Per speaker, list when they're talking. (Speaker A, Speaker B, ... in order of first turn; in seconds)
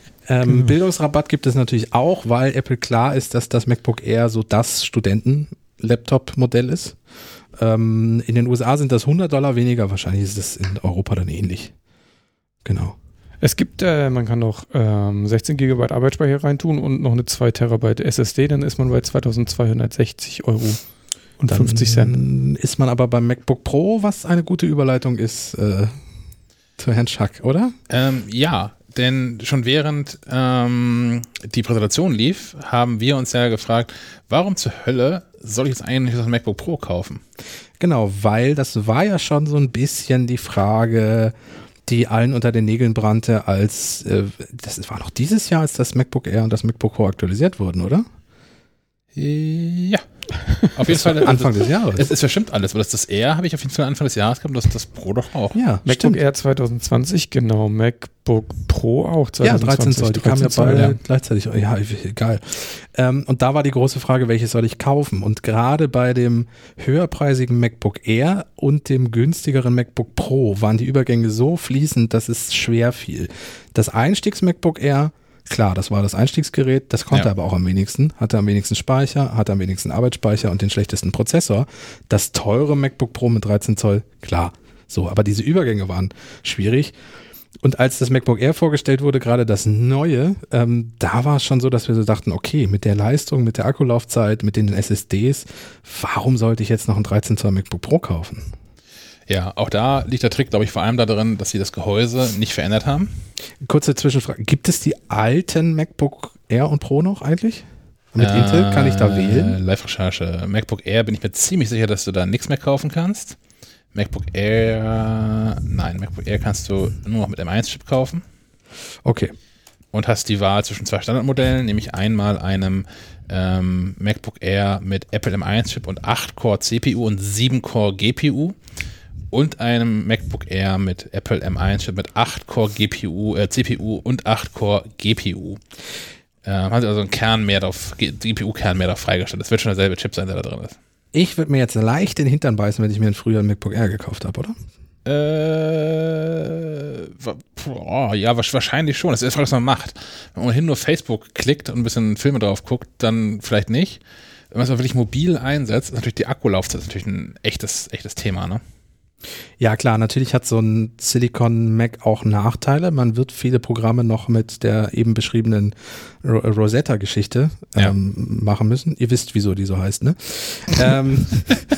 Speaker A: 0.3-7.0, 7.5-11.7, 12.6-12.9, 21.5-25.9, 26.8-27.7, 37.8-41.3, 41.9-48.0, 50.9-52.1, 55.5-56.2, 59.4-86.9, 87.6-98.5, 103.6-109.6, 119.0-119.3, 141.1-144.6, 159.6-171.6
Speaker B: 13.4-20.8, 21.4-22.2, 55.9-61.0
Speaker C: 27.9-37.2, 49.1-50.0, 50.6-55.6, 99.3-103.1, 108.2-113.4, 113.9-118.2, 119.9-128.6, 129.3-135.6, 136.4-140.8, 145.0-154.0, 154.5-158.6